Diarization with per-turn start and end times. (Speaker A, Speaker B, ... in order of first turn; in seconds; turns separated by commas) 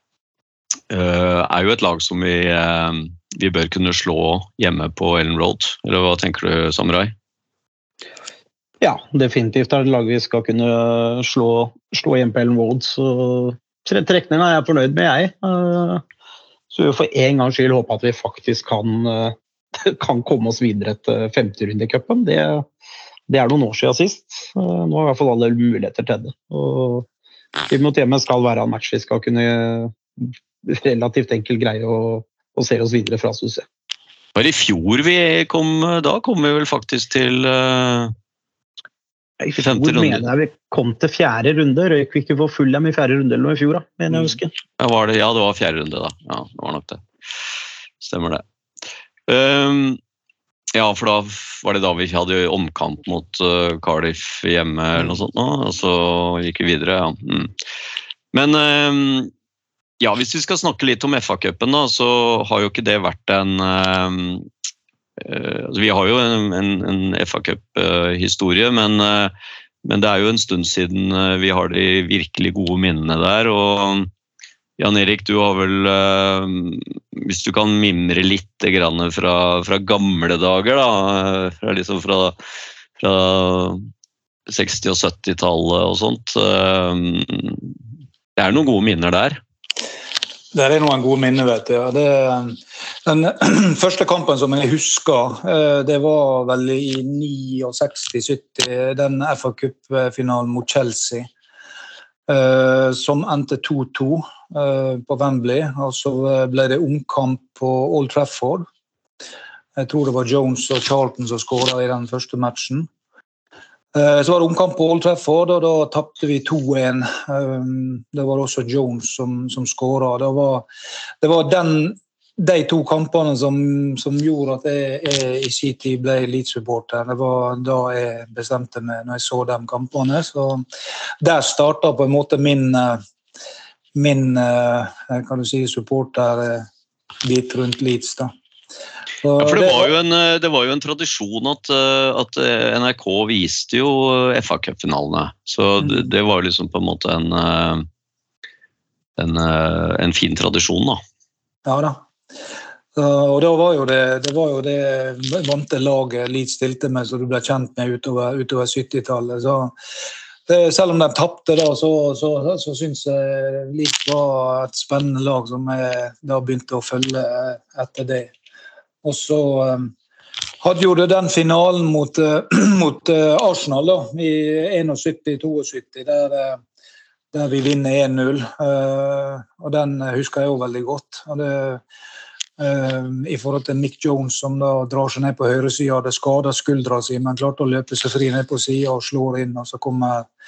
Speaker A: 0.9-7.1, Speaker B: 8.8-16.0, Speaker B: 16.7-22.7, Speaker B: 23.3-27.1, Speaker B: 27.7-33.6, Speaker A: 34.4-38.1, Speaker B: 39.4-44.5, Speaker A: 39.6-40.3, Speaker A: 44.3-47.0, Speaker A: 48.0-48.4, Speaker A: 49.3-50.0, Speaker A: 50.7-57.5, Speaker A: 58.3-59.3, Speaker A: 60.0-64.5, Speaker A: 65.2-69.3, Speaker A: 69.8-74.1, Speaker A: 74.8-82.3, Speaker A: 83.0-83.8, Speaker A: 84.5-87.7, Speaker A: 88.4-89.4, Speaker C: 90.5-101.3, Speaker C: 102.3-108.7, Speaker C: 109.8-112.9, Speaker C: 113.9-120.7, Speaker C: 121.2-130.6, Speaker C: 131.2-133.0, Speaker C: 133.9-136.7, Speaker C: 137.2-138.3, Speaker C: 139.2-139.9, Speaker A: 139.4-147.9, Speaker A: 149.2-151.0, Speaker C: 151.7-152.0, Speaker C: 152.9-159.7, Speaker C: 160.5-168.3, Speaker C: 169.0-169.9, Speaker C: 170.6-176.6, Speaker C: 177.3-181.8, Speaker C: 182.6-190.3